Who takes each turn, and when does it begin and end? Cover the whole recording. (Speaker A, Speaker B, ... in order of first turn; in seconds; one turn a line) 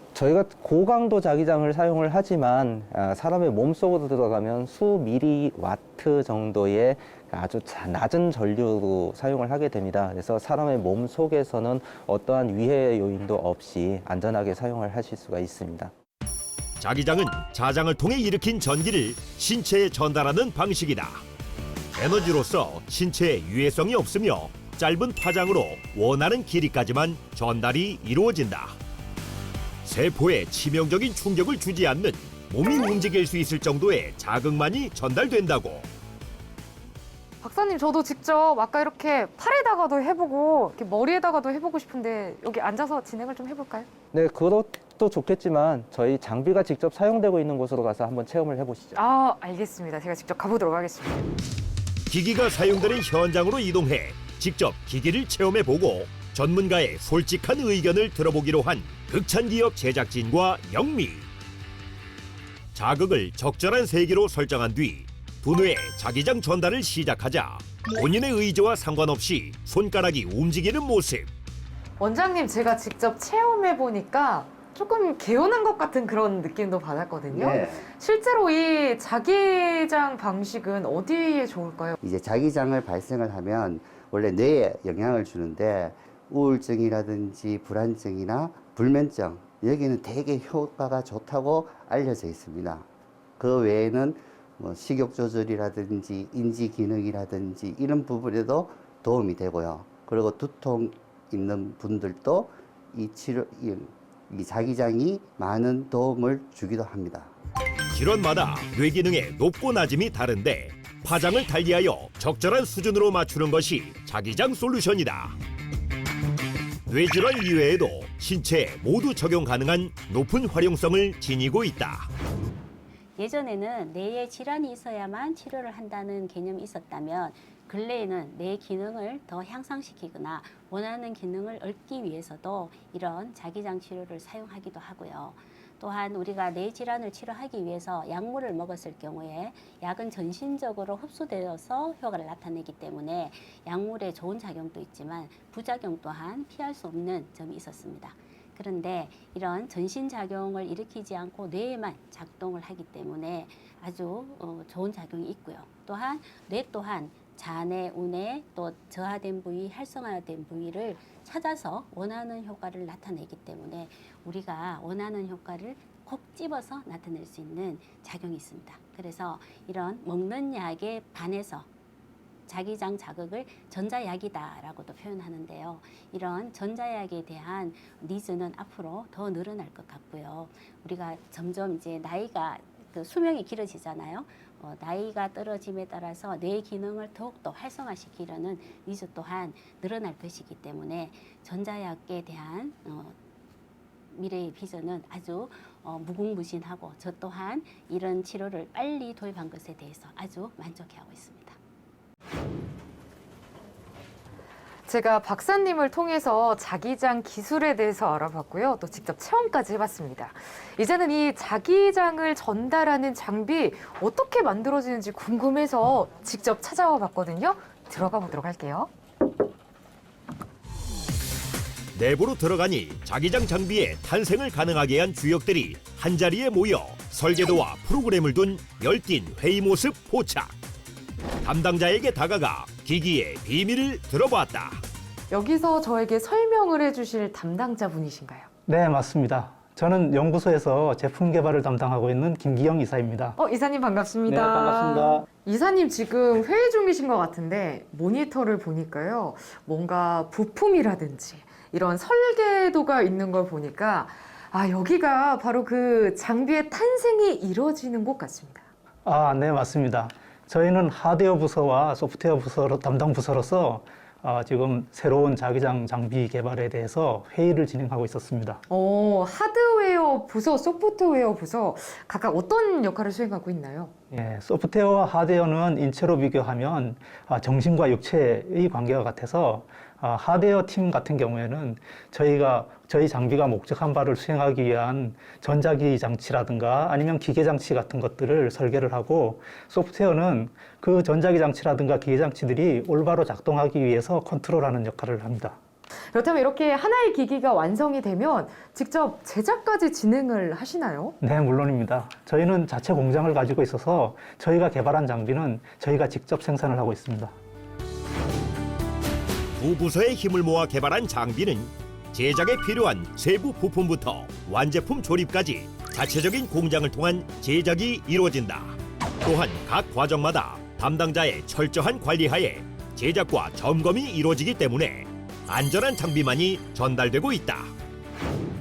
Speaker A: 0.1-15.9
Speaker B: 16.8-21.2
Speaker B: 21.9-28.8
Speaker B: 29.9-35.9
Speaker C: 37.4-43.9
Speaker A: 44.1-49.0
Speaker C: 49.0-51.3
Speaker B: 52.1-61.3
Speaker B: 62.7-71.3
Speaker C: 72.0-82.0
Speaker D: 77.3-77.9
Speaker D: 82.0-92.9
Speaker D: 93.4-107.3
Speaker B: 107.9-115.4
Speaker B: 116.9-122.1
Speaker E: 123.2-171.7
Speaker E: 172.5-193.2
Speaker E: 194.1-201.6
Speaker C: 204.9-218.9
Speaker B: 221.9-230.5
Speaker B: 231.4-234.8
Speaker C: 235.3-238.5
Speaker F: 238.7-243.4
Speaker C: 243.4-258.6
Speaker F: 244.3-245.3
Speaker F: 259.1-268.6
Speaker C: 268.7-273.9
Speaker F: 274.1-295.6
Speaker C: 296.1-301.1
Speaker F: 301.2-307.3
Speaker B: 309.6-327.7